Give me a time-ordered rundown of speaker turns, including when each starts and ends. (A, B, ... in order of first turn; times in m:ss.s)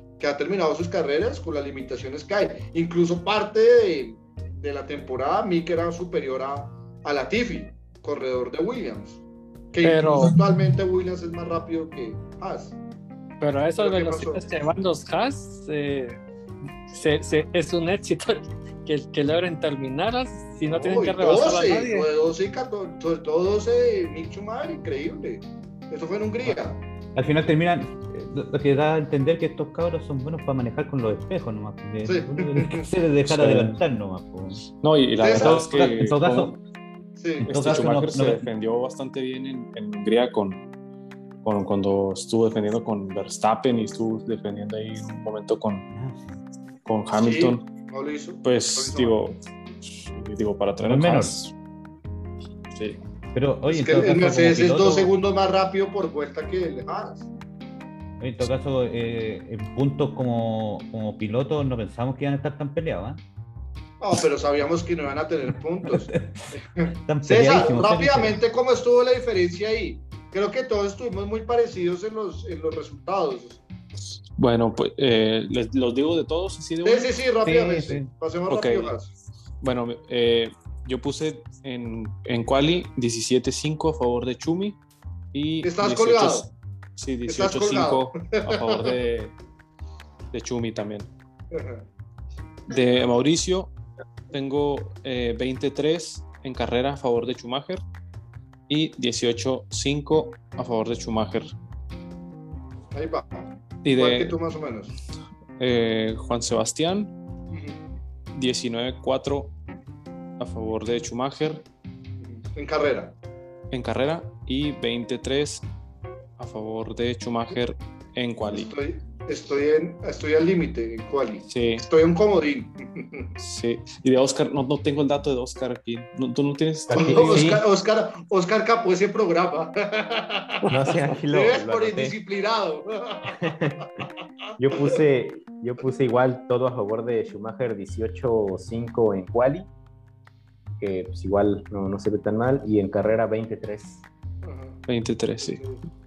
0:00.2-0:12.8 A
0:09.8-0:10.4 B
0:13.4-0:16.2 B
0:13.8-0:14.5 A
0:16.9-0:22.1 B
0:20.7-0:26.8 A
0:27.1-0:34.6 C
0:32.0-0:32.9 A
0:33.3-0:33.8 D
0:34.8-0:36.6 D
0:35.2-0:35.6 A
0:35.3-0:36.6 C
0:37.2-0:37.9 A
0:37.4-0:38.5 C
0:37.5-0:40.6 D
0:41.4-0:45.9 D
0:45.9-0:46.4 C
0:46.8-0:47.7 D
0:47.2-0:49.3 A
0:48.4-0:51.5 D
0:50.8-0:51.3 C
0:52.7-0:53.0 D
0:53.3-0:55.1 C
0:53.7-0:57.3 A
0:58.2-1:03.2 C
1:04.0-1:13.6 A
1:05.9-1:06.3 C
1:07.1-1:08.4 C
1:14.4-1:17.1 D
1:16.8-1:19.1 A
1:17.4-1:18.1 C
1:18.5-1:19.0 D
1:19.6-1:24.8 D
1:25.3-1:29.3 D
1:25.6-1:26.5 A
1:27.3-1:28.9 A
1:30.3-1:31.1 D
1:31.5-1:31.9 A
1:32.7-1:33.7 D
1:32.8-1:33.0 A
1:34.3-1:37.8 D
1:38.7-1:41.5 D
1:42.9-1:44.9 A
1:43.8-1:44.4 D
1:45.6-1:47.1 D
1:47.5-1:47.8 A
1:48.3-1:49.5 D
1:50.4-1:51.6 D
1:52.2-1:53.2 A
1:53.7-1:55.7 D
1:56.4-1:58.7 D
1:58.5-2:03.3 A
2:01.5-2:01.8 D
2:03.4-2:07.5 D
2:06.9-2:07.6 E
2:06.9-2:10.7 A
2:10.6-2:12.2 E
2:11.3-2:13.4 A
2:13.3-2:13.9 E
2:14.6-2:19.7 E
2:20.8-2:24.0 E
2:24.4-2:24.8 A
2:24.9-2:25.6 D
2:25.4-2:25.8 A